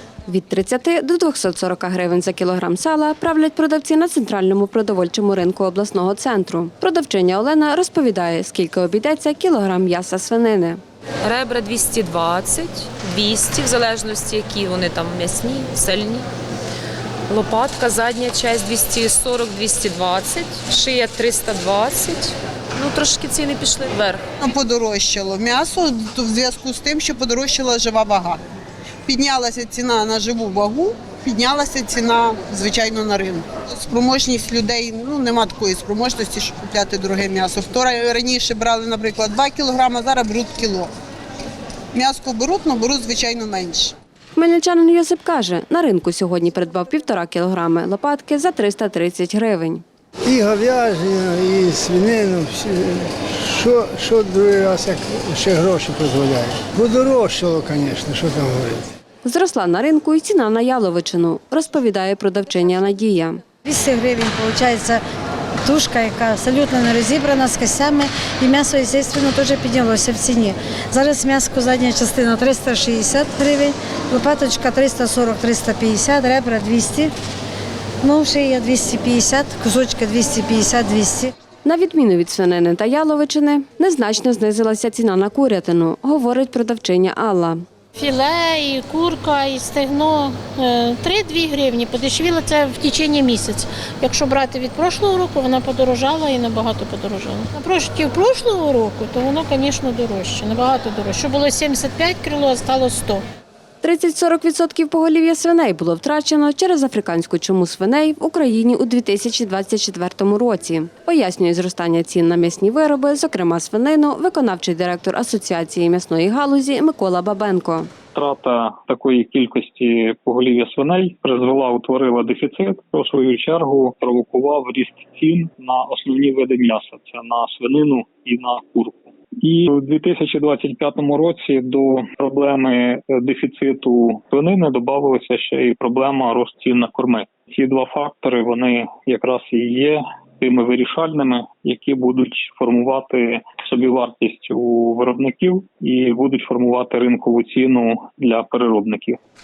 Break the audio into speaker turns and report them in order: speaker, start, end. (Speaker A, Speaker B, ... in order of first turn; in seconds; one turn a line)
Speaker A: 0.3-10.8
Speaker B: 11.2-16.3
Speaker B: 17.3-24.2
Speaker C: 24.4-28.4
Speaker C: 29.1-40.9
Speaker C: 41.9-43.9
Speaker A: 44.4-49.8
Speaker D: 50.2-58.9
Speaker A: 59.2-63.4
Speaker E: 63.6-65.0
Speaker E: 65.6-77.1
Speaker E: 78.0-81.3
Speaker A: 81.6-87.6
Speaker F: 88.0-103.2
Speaker A: 103.8-117.9
Speaker G: 118.1-149.2